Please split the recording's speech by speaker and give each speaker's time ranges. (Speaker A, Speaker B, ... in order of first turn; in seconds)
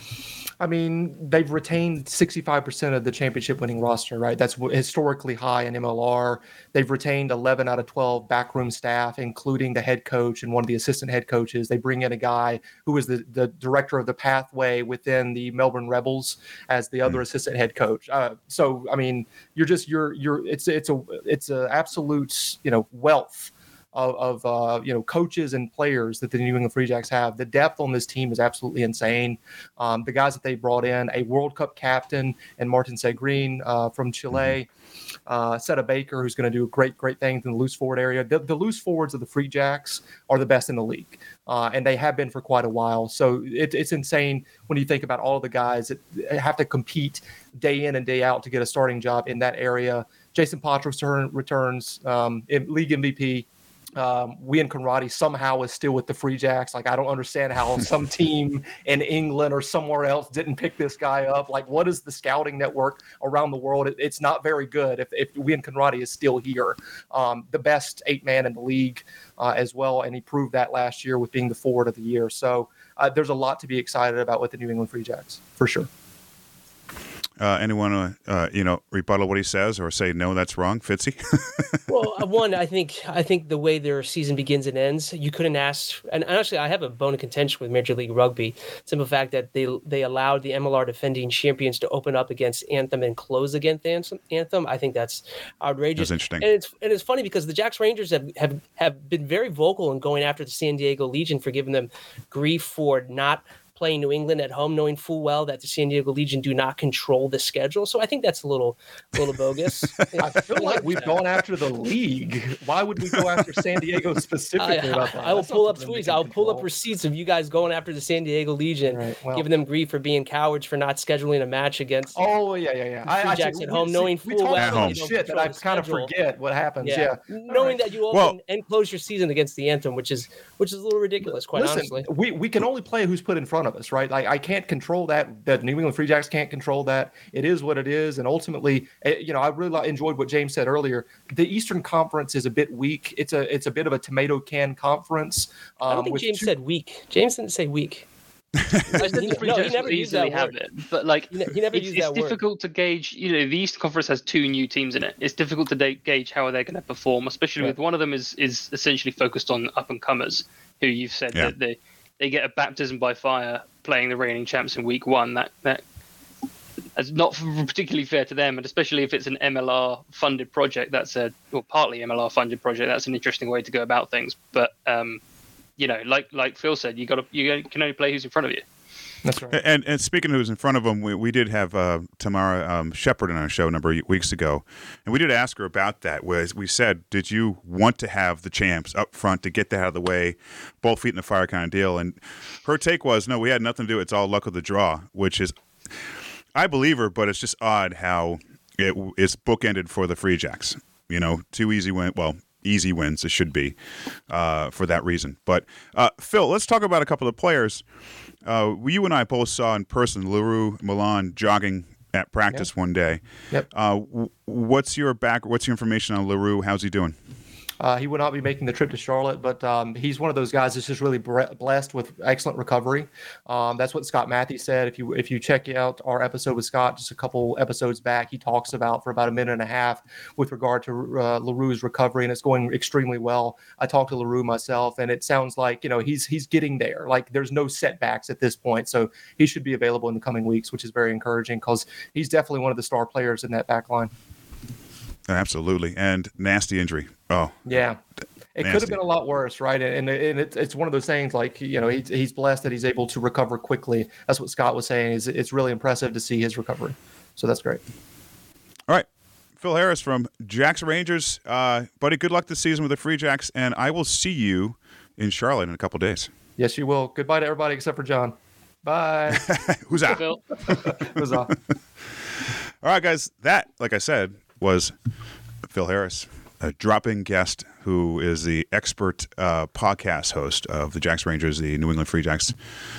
Speaker A: 0.6-34.7, 35.3-53.5, 54.0-75.9, 110.2-116.7, 118.9-119.5, 122.2-127.8, 131.5-146.5, 179.2-179.6, 217.8-244.1, 247.7-248.0, 248.6-257.8, 266.6-269.5, 270.7-271.5
Speaker B: 77.4-81.7, 96.0-96.5, 113.1-113.4, 124.6-125.0, 128.1-128.4, 179.5-195.5, 196.6-203.8, 204.3-207.8, 208.4-217.1, 245.3-247.6, 248.6-249.0, 259.6-266.3, 269.3-270.2, 272.8-274.9, 275.7-282.6
Speaker C: 81.9-111.2, 114.6-122.3, 123.1-126.1, 126.8-132.1, 145.9-148.1, 148.9-150.6, 151.3-152.4
Speaker D: 148.9-165.8, 167.0-175.2, 175.8-178.6, 270.1-270.9